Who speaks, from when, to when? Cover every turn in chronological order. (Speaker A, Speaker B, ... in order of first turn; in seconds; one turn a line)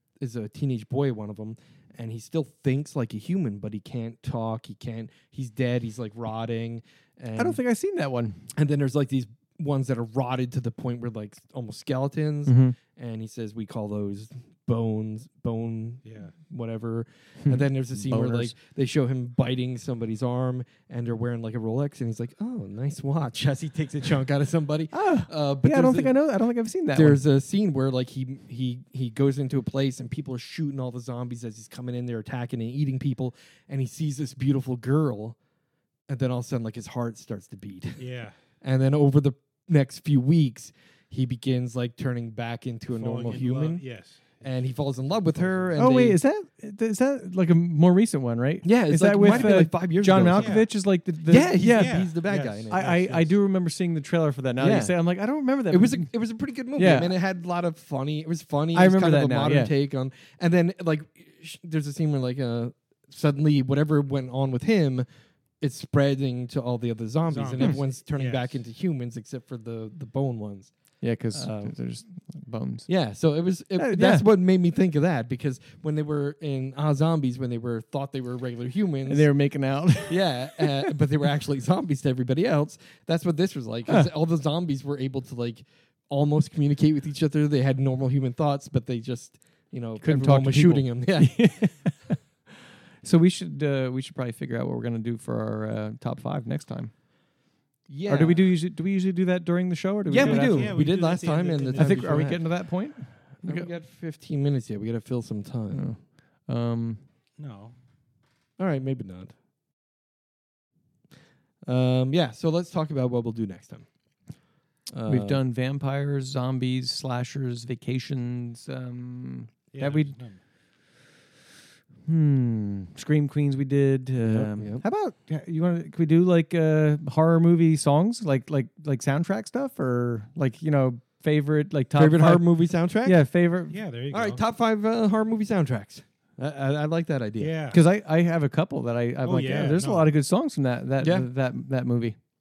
Speaker A: 0.2-7.6
Speaker B: 7.4-8.5
Speaker A: 8.5-26.1
Speaker B: 12.4-12.8
Speaker C: 16.0-16.3
Speaker B: 17.4-18.5
Speaker B: 24.9-27.2
Speaker A: 26.9-35.4
Speaker A: 36.1-38.0
Speaker C: 38.0-38.4
Speaker A: 38.6-43.8
Speaker C: 42.9-45.8
Speaker A: 44.4-46.2
Speaker B: 45.8-52.0
Speaker A: 48.6-50.6
Speaker C: 49.2-49.5
Speaker C: 50.3-50.7
Speaker A: 51.3-52.8
Speaker C: 51.5-53.4
Speaker B: 52.7-56.1
Speaker A: 54.6-54.9
Speaker A: 55.7-65.0
Speaker B: 56.8-57.1
Speaker B: 58.7-59.7
Speaker A: 65.6-70.7
Speaker C: 67.3-68.6
Speaker B: 71.0-72.9
Speaker A: 71.3-71.7
Speaker A: 72.9-79.3
Speaker B: 73.8-74.2
Speaker B: 79.1-80.9
Speaker A: 80.1-91.4
Speaker B: 90.0-92.2
Speaker B: 93.0-96.9
Speaker A: 97.9-98.5
Speaker B: 98.1-100.8
Speaker A: 100.1-102.5
Speaker C: 100.1-102.3
Speaker B: 101.8-103.7
Speaker A: 103.4-105.9
Speaker B: 105.7-107.0
Speaker C: 107.4-107.8
Speaker A: 108.6-109.3
Speaker A: 111.7-113.8
Speaker A: 114.9-115.4
Speaker B: 115.0-120.1
Speaker C: 119.7-120.4
Speaker B: 122.0-132.5
Speaker A: 124.2-124.8
Speaker A: 131.9-133.2
Speaker B: 133.0-133.8
Speaker C: 133.7-134.4
Speaker A: 134.1-137.5
Speaker C: 137.4-137.8
Speaker B: 137.7-142.2
Speaker C: 139.2-140.1
Speaker A: 141.0-141.3